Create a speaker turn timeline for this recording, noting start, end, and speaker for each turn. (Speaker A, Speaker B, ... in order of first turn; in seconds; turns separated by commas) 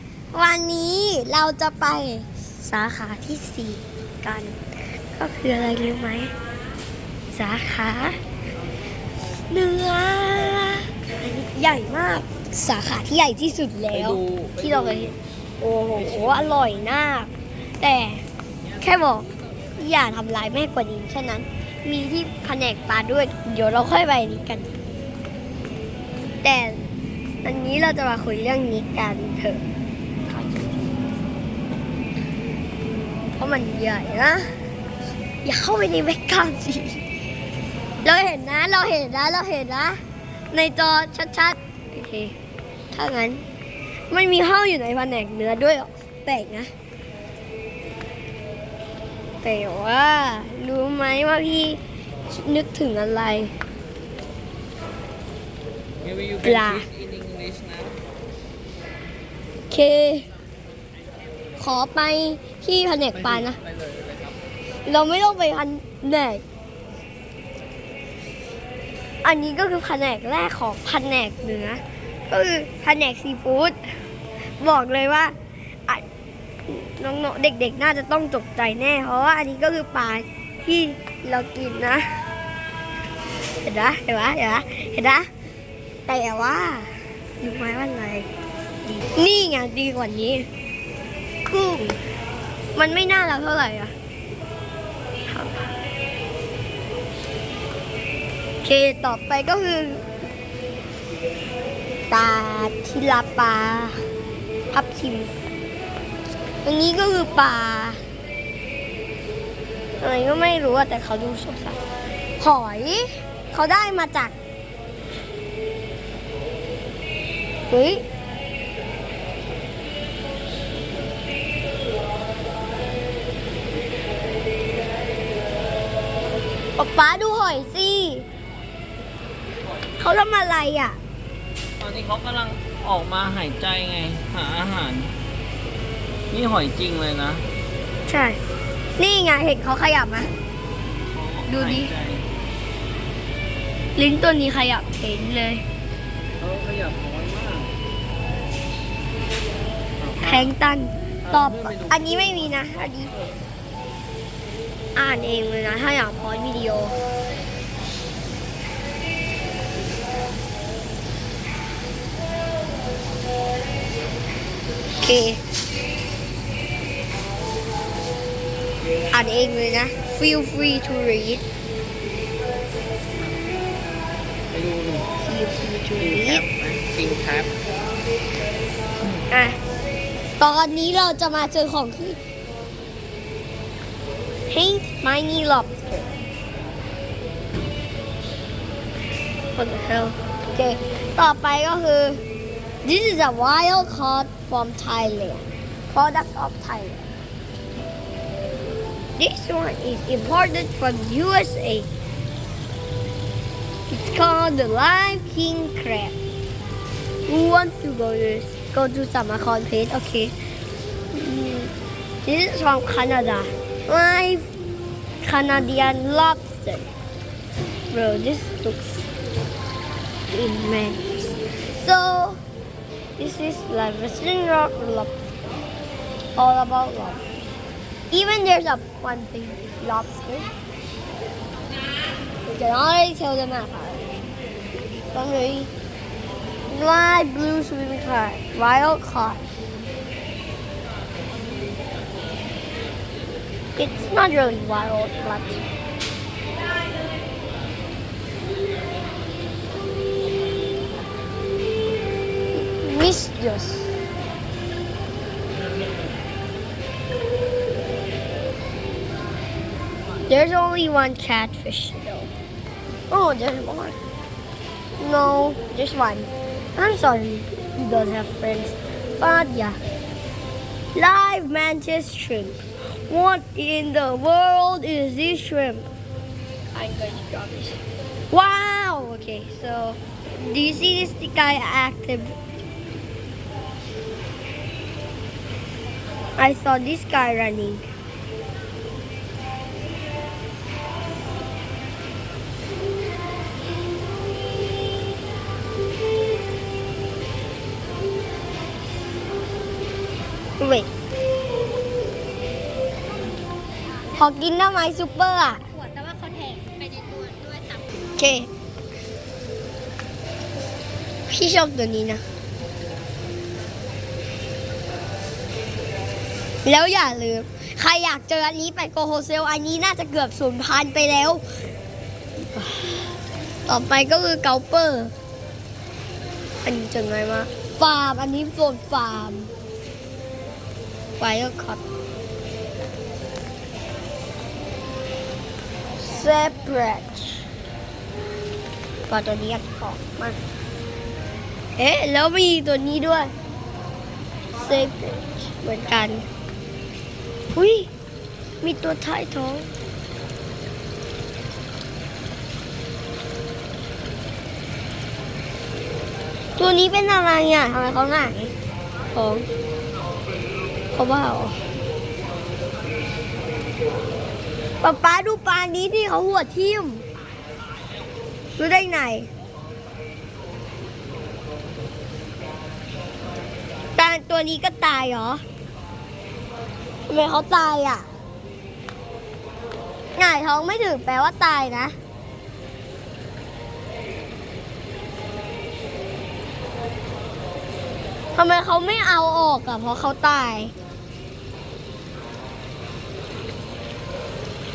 Speaker A: 0.3-6.3, Speaker A: 7.3-8.2, Speaker A: 9.2-18.2, Speaker B: 13.9-15.0, Speaker A: 18.8-24.7, Speaker A: 26.4-26.9, Speaker A: 27.4-29.6, Speaker A: 30.3-30.9, Speaker A: 33.4-34.5, Speaker A: 35.4-37.0, Speaker A: 38.0-40.0, Speaker A: 40.5-42.4, Speaker A: 42.9-43.4, Speaker A: 44.1-46.7, Speaker A: 49.4-53.5, Speaker B: 56.0-58.0, Speaker A: 56.4-56.9, Speaker A: 59.7-60.3, Speaker A: 61.6-63.6, Speaker A: 64.8-66.4, Speaker A: 69.2-73.8, Speaker A: 74.6-76.0, Speaker A: 76.7-82.1, Speaker A: 83.6-85.3, Speaker A: 86.1-88.3, Speaker A: 88.9-90.5, Speaker A: 91.5-92.0, Speaker A: 92.7-93.9, Speaker A: 95.3-95.7, Speaker A: 98.6-100.0, Speaker A: 102.1-104.0, Speaker A: 104.7-105.3, Speaker A: 106.6-108.0, Speaker A: 110.0-111.8, Speaker A: 112.4-114.3, Speaker A: 117.7-118.0, Speaker A: 126.8-128.2, Speaker A: 130.0-131.0, Speaker B: 131.8-135.1, Speaker B: 136.3-137.4, Speaker A: 138.1-138.4, Speaker A: 139.0-140.3, Speaker B: 141.1-142.3, Speaker A: 141.5-141.9, Speaker A: 143.9-145.6, Speaker B: 146.4-147.7, Speaker B: 150.0-150.5, Speaker A: 150.2-153.1, Speaker B: 151.3-152.2, Speaker A: 154.9-157.0, Speaker A: 165.0-165.4, Speaker A: 169.1-171.4, Speaker B: 174.5-175.1, Speaker A: 175.2-176.4, Speaker B: 176.0-177.5, Speaker A: 179.3-179.6, Speaker A: 180.4-182.2, Speaker A: 184.5-186.1, Speaker A: 189.5-192.2, Speaker A: 192.8-197.1, Speaker A: 199.2-201.9, Speaker A: 203.9-206.1, Speaker A: 207.3-210.3, Speaker A: 211.1-211.7, Speaker A: 212.2-214.5, Speaker A: 215.2-216.9, Speaker A: 217.9-219.1, Speaker A: 220.3-222.4, Speaker A: 223.2-225.1, Speaker A: 226.3-227.4, Speaker A: 228.1-230.5, Speaker A: 232.4-234.2, Speaker A: 235.0-235.7, Speaker A: 236.7-239.4, Speaker A: 243.8-245.6, Speaker A: 252.5-253.9, Speaker A: 260.2-262.3, Speaker A: 263.1-264.0, Speaker A: 265.0-269.8, Speaker A: 270.9-275.9, Speaker A: 276.7-277.8, Speaker A: 278.3-282.4, Speaker A: 286.4-287.9, Speaker A: 300.6-300.9, Speaker A: 304.1-305.7, Speaker C: 305.8-307.9, Speaker A: 308.0-308.5, Speaker A: 311.3-312.2, Speaker A: 316.6-321.4, Speaker A: 322.4-323.1, Speaker A: 323.6-325.1, Speaker A: 326.6-329.5, Speaker A: 331.2-331.8, Speaker A: 336.0-337.4, Speaker A: 339.1-340.4, Speaker A: 341.8-343.3, Speaker A: 344.5-346.2, Speaker A: 347.6-347.9, Speaker A: 348.6-349.7, Speaker A: 356.6-358.5, Speaker A: 359.1-359.5, Speaker A: 360.9-361.6, Speaker A: 364.8-367.1, Speaker A: 368.6-369.3, Speaker A: 373.9-375.4, Speaker A: 377.1-378.1, Speaker A: 380.1-381.9, Speaker A: 388.3-390.7